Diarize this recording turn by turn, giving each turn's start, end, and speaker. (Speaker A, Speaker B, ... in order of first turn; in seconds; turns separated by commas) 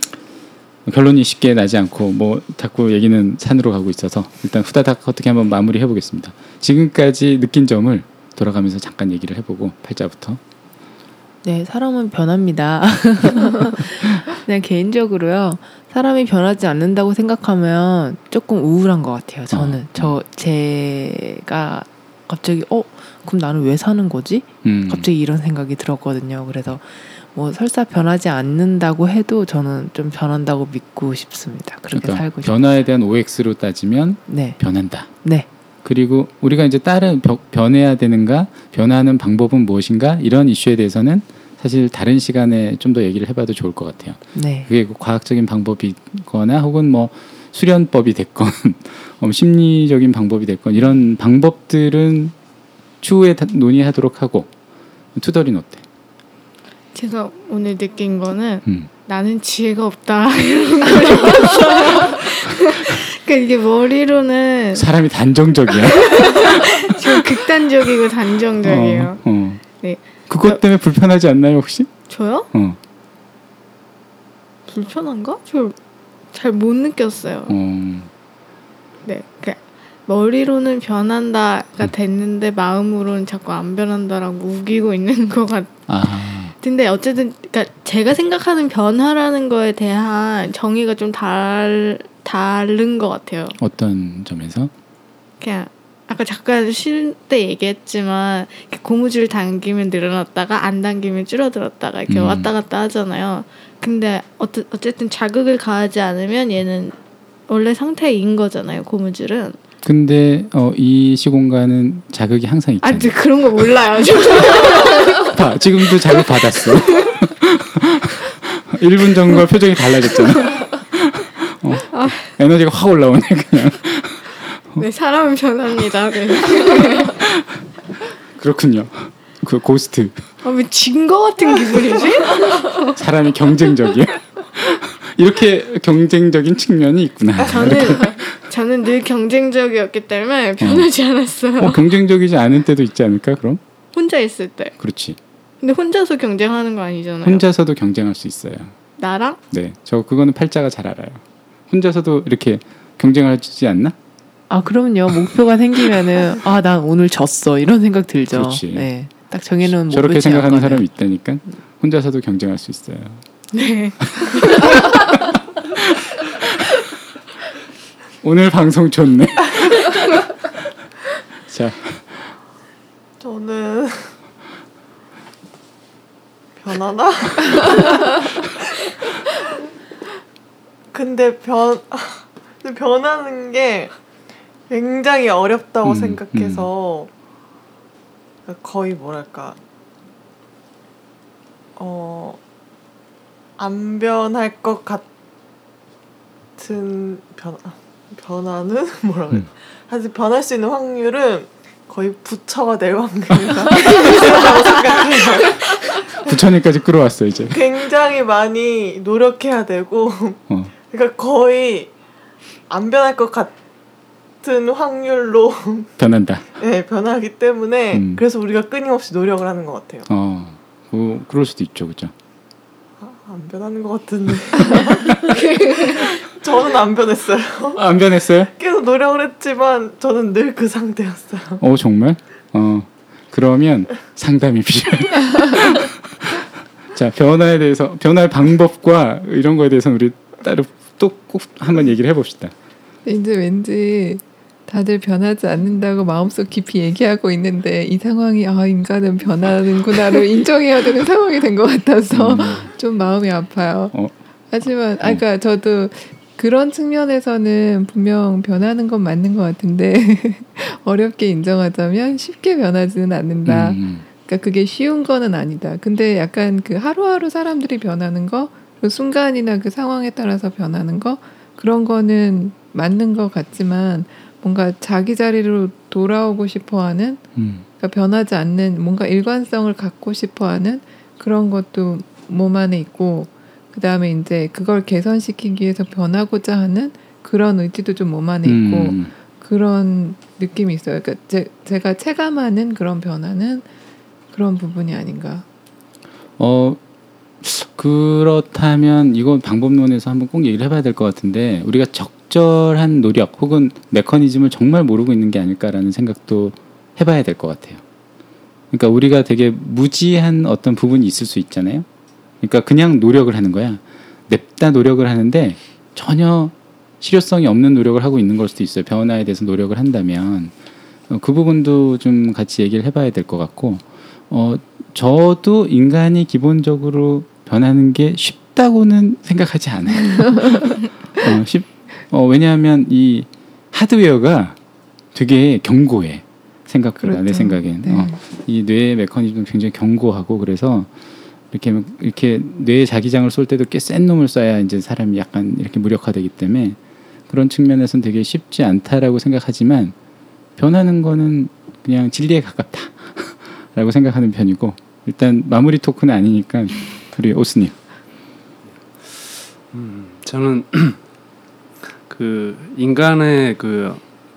Speaker A: 0.8-10.4, Speaker B: 11.4-32.5, Speaker A: 19.5-20.2, Speaker A: 24.6-25.1, Speaker A: 31.9-35.1, Speaker B: 34.3-34.6, Speaker B: 35.1-35.5, Speaker A: 35.8-52.3, Speaker B: 44.3-44.7, Speaker A: 53.0-54.5, Speaker A: 55.1-55.9, Speaker C: 56.9-64.8, Speaker A: 62.5-62.8, Speaker A: 64.7-67.2, Speaker C: 65.7-69.2, Speaker A: 68.6-69.6, Speaker C: 69.8-70.6, Speaker A: 70.3-71.9, Speaker C: 72.1-72.5, Speaker A: 72.5-72.8, Speaker C: 74.7-75.8, Speaker C: 76.3-77.5, Speaker A: 77.5-78.1, Speaker C: 79.0-85.7, Speaker A: 85.9-86.5, Speaker C: 86.5-93.6, Speaker A: 93.6-94.7, Speaker C: 95.4-107.0, Speaker A: 102.1-102.5, Speaker C: 107.5-109.6, Speaker A: 109.8-113.2, Speaker C: 112.8-115.3, Speaker A: 115.2-124.8, Speaker C: 116.1-117.1, Speaker C: 121.9-122.3, Speaker C: 124.8-127.2, Speaker A: 127.1-127.6, Speaker A: 128.4-130.2, Speaker C: 130.4-133.0, Speaker A: 132.9-138.4, Speaker C: 137.4-141.8, Speaker A: 140.6-140.9, Speaker A: 141.6-143.6, Speaker C: 143.9-144.7, Speaker A: 144.8-145.2, Speaker C: 145.6-147.4, Speaker A: 147.2-148.7, Speaker C: 149.0-149.4, Speaker A: 149.5-153.9, Speaker B: 154.5-160.8, Speaker A: 158.3-158.9, Speaker A: 159.6-163.2, Speaker C: 163.5-165.0, Speaker A: 164.0-166.6, Speaker A: 168.2-170.5, Speaker A: 171.5-172.3, Speaker D: 173.2-174.1, Speaker D: 176.6-178.5, Speaker D: 180.9-183.9, Speaker D: 184.7-187.1, Speaker A: 185.8-186.7, Speaker D: 188.4-189.6, Speaker D: 191.8-192.4, Speaker D: 193.6-195.0, Speaker D: 196.6-206.3, Speaker A: 203.3-203.8, Speaker A: 206.2-207.6, Speaker D: 207.5-211.9, Speaker D: 212.7-213.5, Speaker D: 214.4-215.9, Speaker A: 216.0-216.4, Speaker D: 216.6-220.1, Speaker A: 217.9-218.2, Speaker A: 220.1-222.1, Speaker D: 223.0-227.9, Speaker C: 225.3-226.1, Speaker A: 227.7-228.5, Speaker D: 228.4-231.6, Speaker A: 231.6-242.5, Speaker E: 243.0-253.9, Speaker A: 252.1-252.7, Speaker E: 254.5-277.2, Speaker A: 263.4-264.0, Speaker A: 277.4-277.6, Speaker E: 277.8-293.7, Speaker A: 288.4-289.1, Speaker E: 294.3-295.4, Speaker A: 296.4-296.8, Speaker A: 297.4-307.8, Speaker A: 308.7-311.9, Speaker A: 312.4-320.5, Speaker A: 321.1-334.6, Speaker E: 330.2-330.4, Speaker A: 335.1-340.9, Speaker E: 337.0-338.2, Speaker A: 341.5-349.9, Speaker A: 350.6-357.8, Speaker F: 358.9-361.0, Speaker F: 361.8-364.0